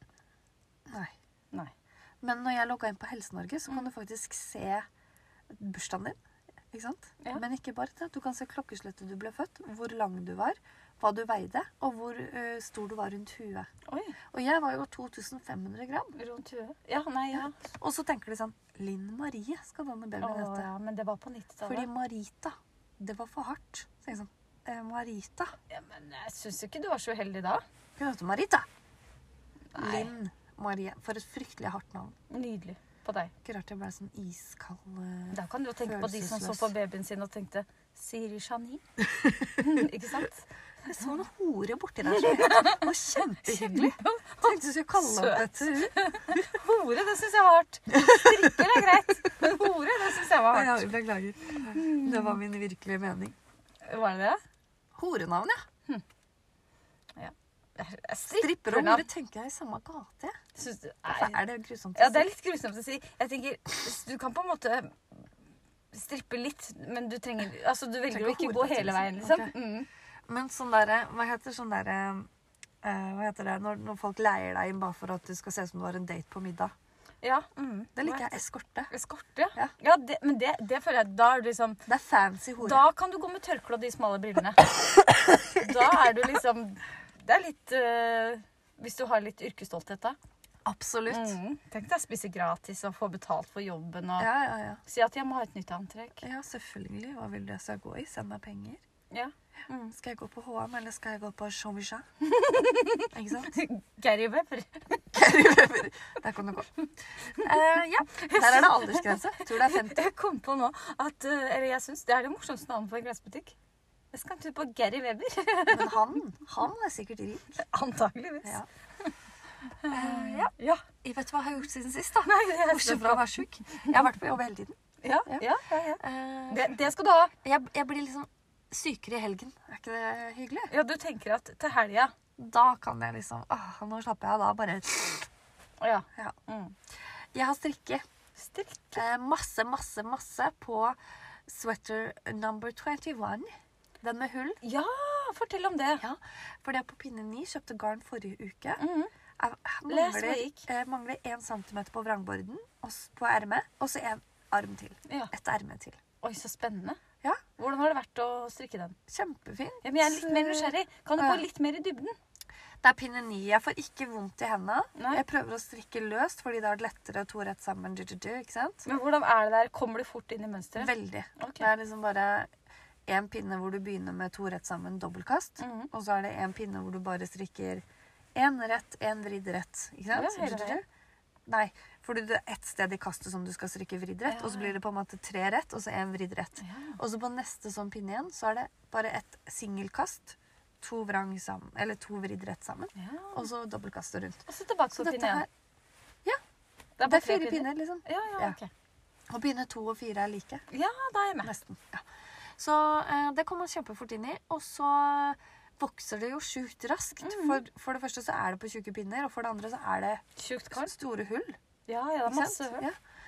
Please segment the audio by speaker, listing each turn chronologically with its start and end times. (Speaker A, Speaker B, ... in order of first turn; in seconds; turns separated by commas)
Speaker A: 0.9-1.1, Speaker A: 2.2-4.8, Speaker A: 5.5-6.2, Speaker A: 6.7-13.7, Speaker B: 13.9-14.2, Speaker A: 14.3-16.2, Speaker B: 16.2-17.6, Speaker A: 17.3-20.7, Speaker B: 20.2-21.9, Speaker A: 21.6-25.6, Speaker B: 25.7-27.6, Speaker A: 28.0-28.7, Speaker B: 29.7-30.1, Speaker A: 29.8-32.2, Speaker B: 32.3-33.3, Speaker A: 33.4-36.7, Speaker B: 35.3-38.8, Speaker A: 39.2-39.5, Speaker B: 39.6-40.5, Speaker A: 40.9-46.4, Speaker B: 42.1-42.9, Speaker B: 43.4-50.9, Speaker A: 47.9-48.8, Speaker A: 50.5-53.4, Speaker B: 51.6-52.4, Speaker B: 53.9-54.4, Speaker A: 55.0-55.6, Speaker B: 57.2-59.1, Speaker A: 58.3-60.4, Speaker B: 60.5-61.4, Speaker A: 61.1-62.3, Speaker B: 62.0-65.0, Speaker B: 65.9-69.9, Speaker A: 68.1-69.5, Speaker A: 70.3-72.3, Speaker A: 72.8-76.7, Speaker B: 77.2-78.4, Speaker A: 78.0-78.9, Speaker B: 78.9-81.9, Speaker A: 81.9-82.8, Speaker B: 82.6-84.7, Speaker B: 85.5-90.2, Speaker A: 90.7-91.4, Speaker B: 91.1-94.3, Speaker A: 94.2-94.8, Speaker B: 94.8-96.2, Speaker A: 96.2-98.8, Speaker B: 99.1-100.0, Speaker A: 99.9-102.0, Speaker B: 102.2-105.1, Speaker A: 103.1-103.5, Speaker A: 105.1-106.7, Speaker A: 107.2-110.1, Speaker B: 108.1-113.6, Speaker B: 114.1-116.1, Speaker A: 115.7-117.5, Speaker B: 117.6-119.1, Speaker B: 119.8-120.8, Speaker A: 119.9-124.8, Speaker B: 122.2-123.9, Speaker B: 125.0-127.3, Speaker A: 125.3-126.8, Speaker A: 127.4-130.7, Speaker B: 130.7-132.1, Speaker A: 132.4-135.3, Speaker B: 135.8-136.8, Speaker A: 137.3-138.0, Speaker B: 138.4-139.0, Speaker A: 138.9-143.5, Speaker A: 144.0-144.6, Speaker B: 144.6-146.0, Speaker A: 146.0-148.8, Speaker B: 148.8-149.1, Speaker A: 149.4-156.0, Speaker B: 149.9-150.7, Speaker B: 155.1-155.3, Speaker B: 156.2-157.0, Speaker B: 157.6-159.0, Speaker A: 159.1-161.4, Speaker B: 159.8-162.2, Speaker A: 162.8-168.8, Speaker B: 164.9-165.2, Speaker B: 168.8-171.7, Speaker A: 170.8-172.5, Speaker A: 173.1-177.8, Speaker B: 175.6-175.9, Speaker A: 178.3-180.8, Speaker B: 180.1-180.8, Speaker A: 181.5-194.4, Speaker B: 184.3-184.8, Speaker B: 186.6-187.0, Speaker B: 192.9-193.5, Speaker B: 194.5-195.4, Speaker A: 194.9-195.5, Speaker B: 197.0-198.7, Speaker A: 197.1-198.6, Speaker A: 199.3-200.6, Speaker B: 200.7-201.5, Speaker A: 201.4-202.0, Speaker A: 202.6-211.6, Speaker B: 207.2-207.6, Speaker B: 210.4-210.9, Speaker B: 211.9-212.9, Speaker A: 212.3-212.9